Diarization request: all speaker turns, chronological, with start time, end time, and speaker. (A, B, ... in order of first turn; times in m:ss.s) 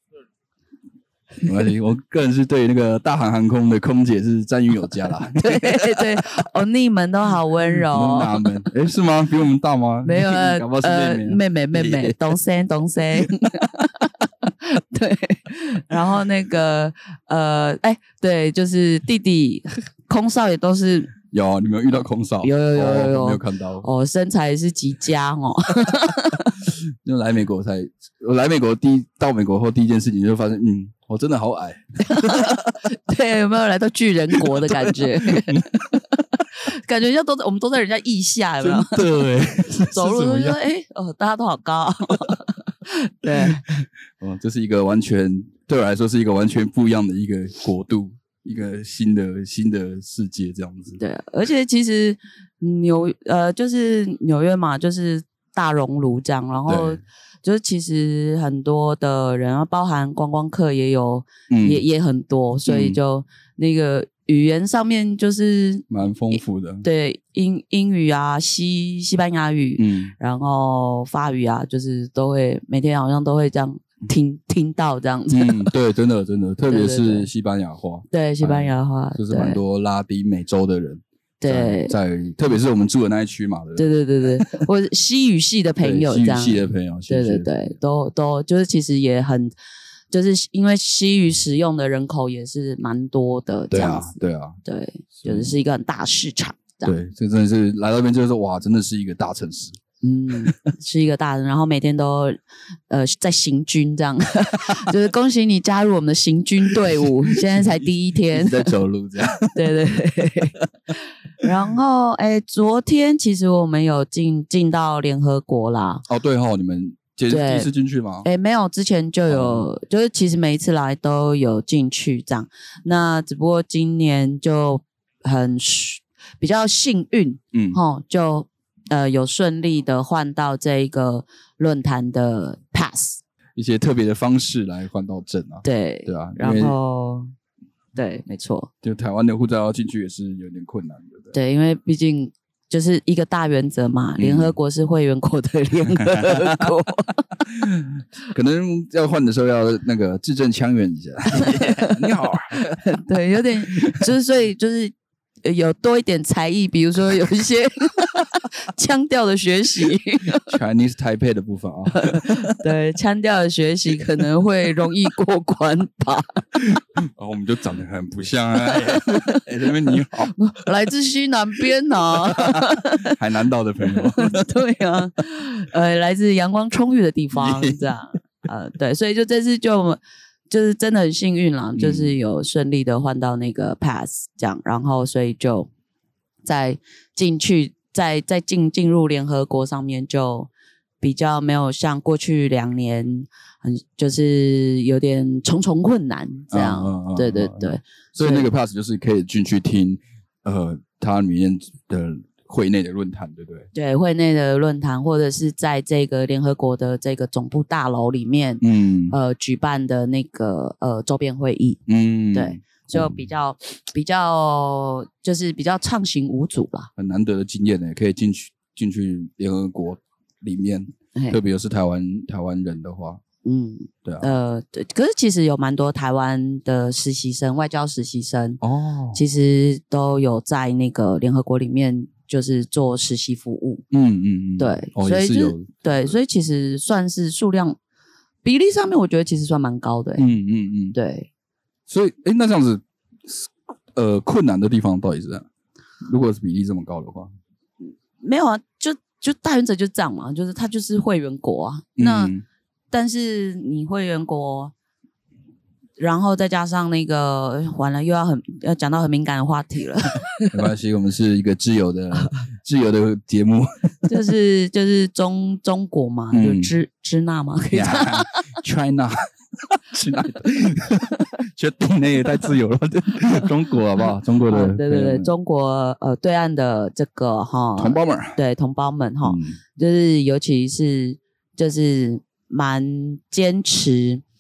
0:01.4-0:06.2 A
0:05.4-0:08.5 B
0:07.7-0:12.3 A
0:10.0-0:21.1 B
0:21.3-0:23.8 A
0:22.4-0:26.5 B
0:27.0-0:32.7 A
0:32.1-0:36.0 B
0:34.4-0:35.8 A
0:36.5-0:39.0 B
0:38.6-0:40.6 A
0:39.8-0:43.6 B
0:43.4-0:51.0 A
0:51.0-1:15.7 B
0:56.7-0:57.0 A
1:01.5-1:01.8 A
1:02.6-1:03.0 A
1:05.9-1:06.8 A
1:09.8-1:10.1 A
1:15.3-1:24.6 A
1:16.7-1:17.3 B
1:18.1-1:19.6 B
1:21.4-1:21.9 B
1:23.8-1:29.5 B
1:25.8-1:27.7 A
1:30.1-1:36.9 B
1:33.7-1:34.6 A
1:35.1-1:35.5 A
1:36.8-1:39.8 A
1:40.0-1:42.4 B
1:42.9-1:48.7 B
1:48.3-1:49.7 A
1:49.5-1:50.6 B
1:51.4-1:56.0 B
1:56.1-1:58.3 A
1:57.3-1:57.7 B
1:58.2-2:13.2 B
1:59.3-1:59.6 A
2:07.5-2:07.8 A
2:13.6-2:16.8 A
2:15.6-2:17.3 B
2:17.9-2:18.7 B
2:18.8-2:21.3 A
2:21.3-2:27.2 B
2:24.2-2:24.5 A
2:26.0-2:26.7 A
2:27.6-2:32.9 A
2:31.4-2:31.9 B
2:32.9-2:40.5 B
2:40.4-2:42.5 A
2:41.9-2:46.4 B
2:46.6-2:50.3 A
2:48.7-2:49.4 B
2:50.3-2:53.1 B
2:52.3-2:54.5 A
2:53.9-3:00.0 B
2:57.3-2:57.8 A
3:00.5-3:05.7 B
3:01.8-3:02.2 A
3:06.4-3:10.5 B
3:11.0-3:18.5 B
3:16.5-3:23.7 A
3:23.7-3:31.8 B
3:28.6-3:29.2 A
3:31.9-3:33.2 A
3:32.3-3:36.9 B
3:37.0-3:43.2 A
3:43.4-3:48.6 B
3:48.6-3:49.2 A
3:49.1-3:53.8 B
3:53.9-3:56.1 A
3:54.6-3:57.8 B
3:58.4-4:00.2 B
4:00.2-4:01.0 A
4:00.9-4:01.3 B
4:01.9-4:05.5 A
4:06.0-4:07.3 A
4:07.8-4:12.3 B
4:12.0-4:12.4 A
4:12.9-4:14.7 B
4:16.0-4:20.5 B
4:20.5-4:23.9 A
4:24.1-4:28.3 B
4:26.3-4:26.7 A
4:27.7-4:35.3 A
4:34.5-4:44.2 B
4:37.8-4:38.4 A
4:39.2-4:39.6 A